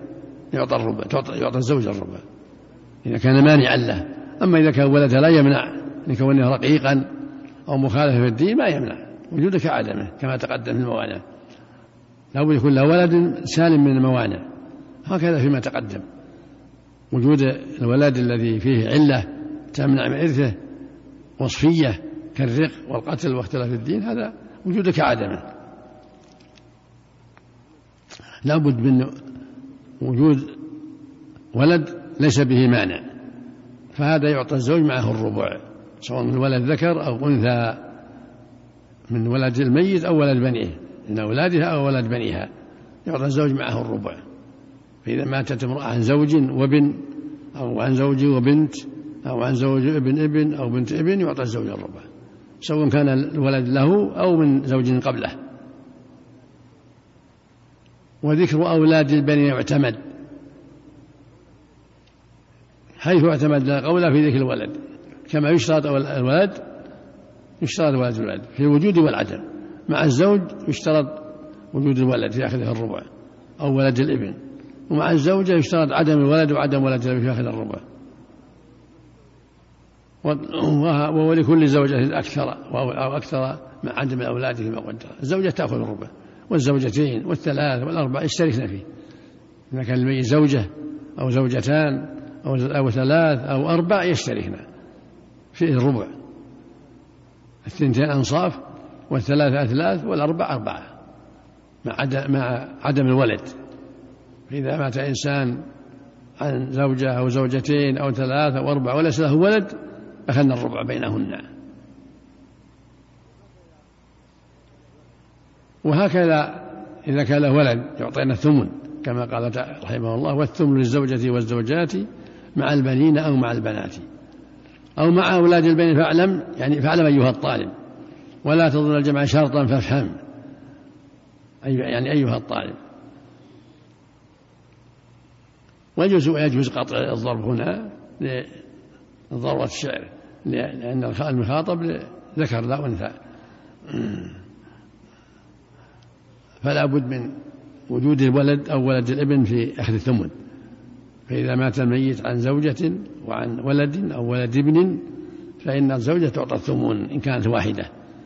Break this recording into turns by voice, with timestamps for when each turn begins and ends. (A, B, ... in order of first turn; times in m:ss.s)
0:00.5-0:02.2 A
0:03.0-0:07.1 A
0:07.7-0:11.2 A
0:12.3-0:14.4 A
0:15.0-0:16.0 A
0:17.1-0:20.6 A
0:21.4-0:25.4 A
0:28.4-0:29.2 A
0:30.0-0:30.6 A
0:31.5-0:33.0 A
0:33.9-0:37.9 A
0:39.1-0:42.5 A
0:43.0-0:44.2 A
0:45.0-0:52.0 A
0:52.6-0:55.4 A
0:58.2-1:00.0 A
1:03.0-1:06.6 A
1:07.6-1:13.1 A
1:13.6-1:17.8 A
1:20.2-1:28.8 A
1:29.7-1:34.6 A
1:35.5-1:36.1 A
1:37.6-1:40.9 A
1:41.8-1:43.6 A
1:44.5-1:45.6 A
1:46.4-1:51.5 A
1:55.8-2:04.0 A
2:05.0-2:07.7 A
2:08.4-2:10.2 A
2:11.6-2:12.8 A
2:16.0-2:18.5 A
2:19.3-2:23.2 A
2:23.9-2:24.4 A
2:26.6-2:30.4 A
2:31.3-2:35.1 A
2:35.6-2:37.9 A